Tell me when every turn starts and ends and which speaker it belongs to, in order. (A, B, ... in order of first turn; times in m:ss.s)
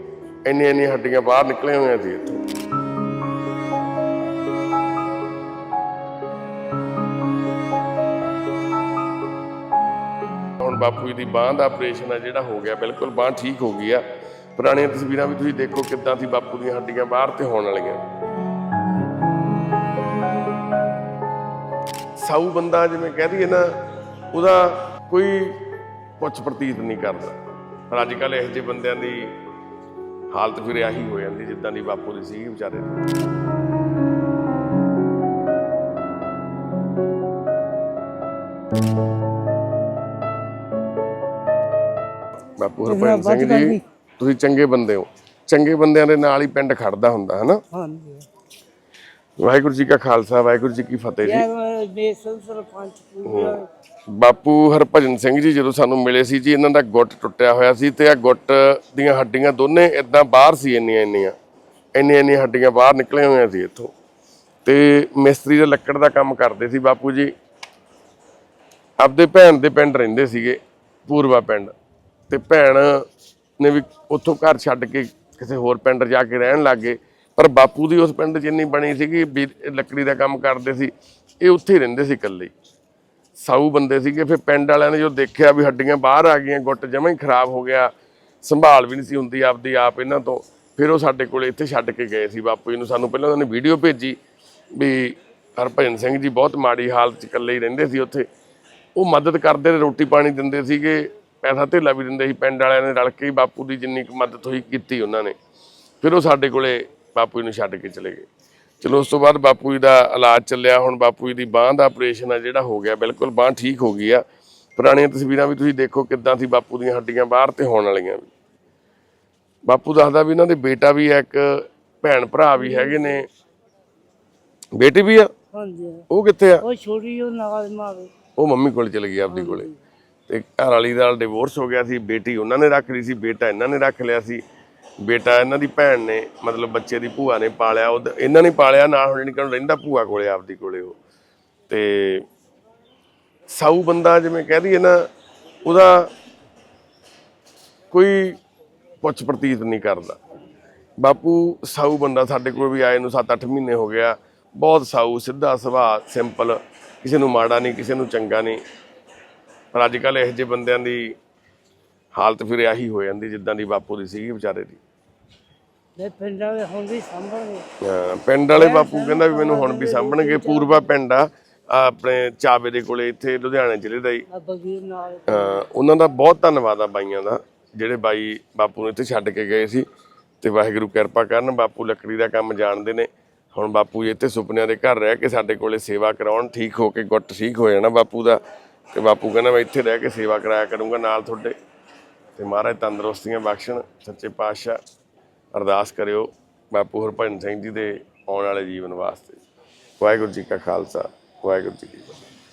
0:00.4-0:02.4 A
0:10.6-0:14.0 A
0:14.6-0:18.0 A
0:22.2-0:23.8 A
0:24.3-0:27.4 A
0:27.9-0:29.3 A
0:30.3-0:33.0 A
0:42.6-0:47.6 A
0:42.8-0:43.8 B
0:47.7-0:48.3 B
0:49.4-0:51.4 A
0:51.2-0:53.7 B
0:53.2-0:53.6 A
0:54.1-1:01.3 A
1:01.9-1:03.9 A
1:04.6-1:07.3 A
1:09.0-1:11.7 A
1:12.3-1:13.1 A
1:13.6-1:22.5 A
1:23.4-1:34.2 A
1:34.7-1:38.2 A
1:39.0-1:45.3 A
1:46.0-1:48.3 A
1:48.8-1:54.2 A
1:54.8-1:58.3 A
1:59.6-2:03.2 A
2:02.6-2:03.1 B
2:04.8-2:05.3 A
2:05.5-2:06.1 B
2:06.1-2:06.6 A
2:06.6-2:08.1 B
2:08.4-2:09.7 A
2:09.3-2:09.8 B
2:10.3-2:14.4 A
2:15.0-2:20.9 A
2:21.7-2:22.2 A
2:23.5-2:25.1 A
2:25.6-2:26.1 A
2:27.9-2:28.4 A
2:29.0-2:30.2 A
2:31.0-2:38.6 A
2:39.7-2:41.1 A
2:42.2-2:44.8 A
2:46.0-2:47.7 B
2:47.8-2:54.2 A
2:48.5-2:50.9 B
2:54.3-2:55.7 B
2:55.3-2:59.8 A
3:00.4-3:08.4 A
3:08.9-3:11.6 A
3:12.4-3:14.8 A
3:15.5-3:19.4 A
3:20.0-3:22.2 A